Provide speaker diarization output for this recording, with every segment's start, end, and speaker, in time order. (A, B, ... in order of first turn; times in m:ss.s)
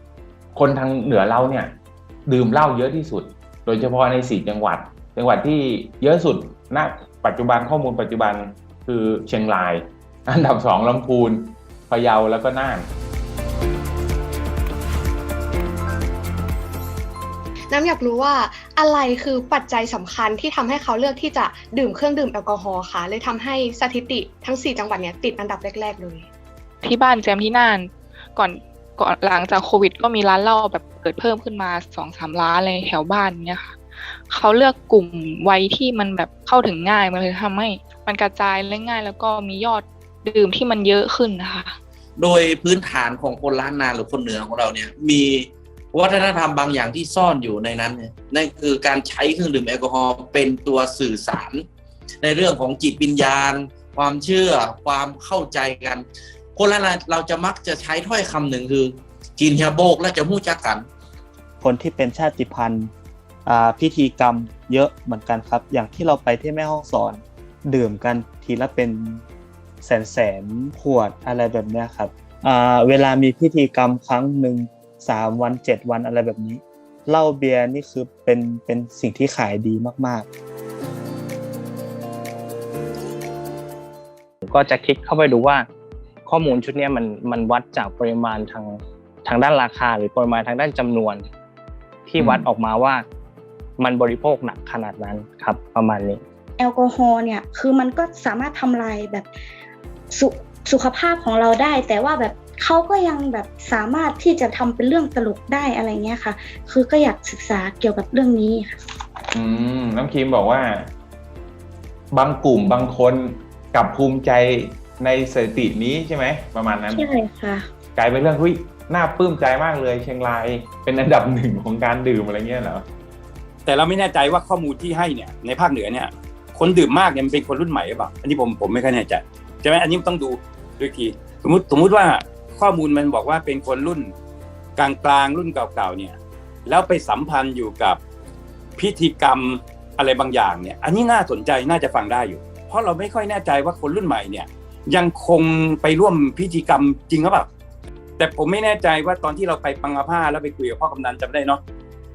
0:00.5-0:01.7 A
0:02.3-0:12.9 A
0:17.7-0:26.3 B
0:26.8-0:41.8 C
0:42.2-0:51.6 D
0:52.2-0:56.0 D
0:56.6-1:00.9 D
1:01.6-1:02.9 E
1:03.4-1:09.2 E
1:09.8-1:20.3 E
1:24.4-1:25.7 F
1:26.2-1:31.3 F
1:32.0-1:33.0 F
1:32.2-1:32.4 A
1:33.8-1:36.2 F
1:36.6-1:39.3 G
1:40.1-1:48.8 G
1:49.3-1:50.9 A
1:52.1-1:57.0 A
1:56.9-1:57.7 G
1:58.0-2:02.8 A
2:03.6-2:14.1 H
2:14.8-2:18.0 H
2:18.8-2:27.5 H
2:28.2-2:31.6 H